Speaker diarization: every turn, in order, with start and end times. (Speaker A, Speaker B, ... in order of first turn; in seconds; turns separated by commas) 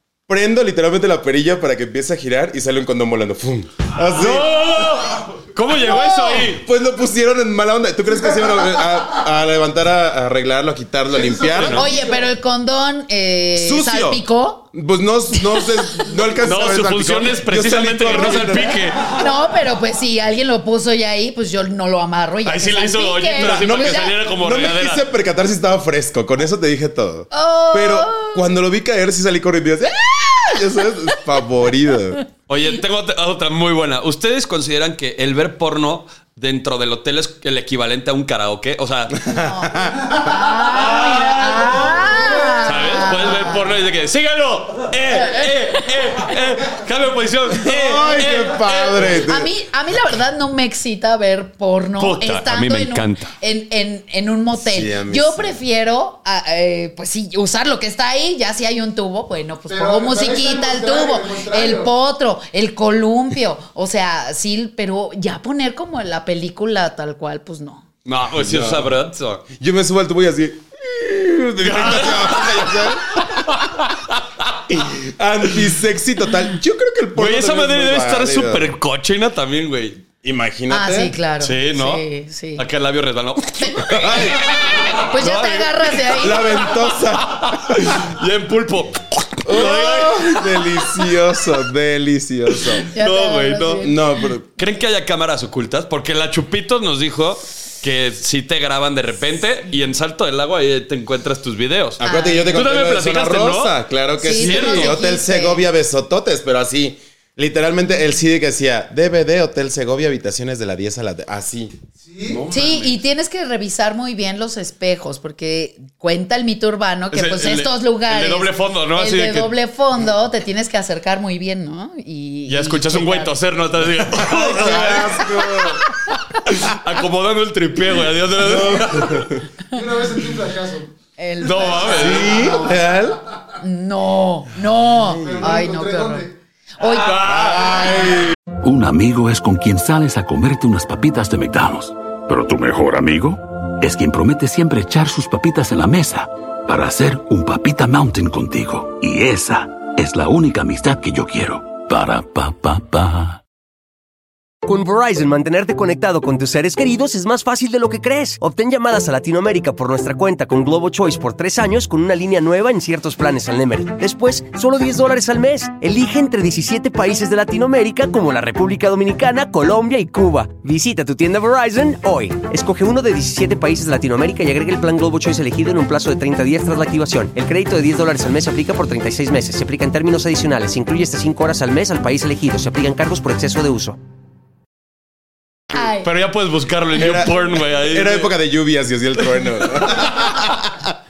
Speaker A: 0.3-5.2, Speaker B: 4.0-6.6, Speaker C: 5.7-6.5, Speaker A: 5.9-11.9, Speaker D: 11.1-12.3, Speaker B: 11.5-11.8, Speaker C: 11.7-14.7, Speaker A: 13.6-18.9, Speaker C: 15.4-16.0, Speaker B: 16.4-19.1, Speaker C: 18.1-24.2, Speaker B: 22.4-25.1, Speaker A: 23.4-32.2, Speaker C: 27.3-28.4, Speaker B: 32.5-39.2, Speaker A: 39.2-40.3, Speaker C: 39.3-43.7, Speaker B: 40.8-49.2, Speaker C: 45.1-46.1, Speaker A: 47.5-49.5, Speaker C: 49.0-67.8, Speaker B: 52.0-53.3, Speaker A: 54.5-55.6, Speaker D: 59.7-61.9, Speaker B: 68.0-69.4, Speaker A: 68.3-69.0, Speaker A: 69.5-73.4, Speaker B: 71.6-74.6, Speaker A: 74.7-78.7, Speaker B: 77.2-80.0, Speaker A: 80.2-81.2, Speaker C: 80.7-82.7, Speaker B: 81.4-82.0, Speaker B: 82.6-90.9, Speaker C: 83.6-86.7, Speaker A: 83.9-84.4, Speaker A: 86.1-88.0, Speaker A: 89.4-92.9, Speaker B: 92.5-93.9, Speaker C: 92.9-93.9, Speaker A: 93.8-94.5, Speaker B: 94.6-103.8, Speaker A: 102.0-111.7, Speaker C: 102.0-102.6, Speaker C: 104.2-105.6, Speaker B: 104.3-105.0, Speaker D: 112.0-112.4, Speaker B: 112.3-113.0, Speaker C: 112.5-123.3, Speaker B: 117.1-119.5, Speaker B: 122.5-129.4, Speaker A: 124.1-125.8, Speaker A: 128.3-129.4, Speaker D: 129.7-130.9, Speaker C: 131.2-132.7, Speaker B: 131.4-132.6, Speaker A: 131.8-133.2, Speaker D: 132.3-133.0, Speaker C: 133.6-136.2, Speaker A: 134.9-135.6, Speaker D: 135.2-136.3, Speaker C: 136.8-137.2, Speaker B: 136.8-138.2, Speaker A: 137.2-138.3, Speaker E: 138.6-153.4, Speaker F: 154.6-184.0, Speaker C: 185.7-186.1, Speaker B: 186.0-188.3, Speaker A: 186.9-190.9, Speaker B: 189.8-190.1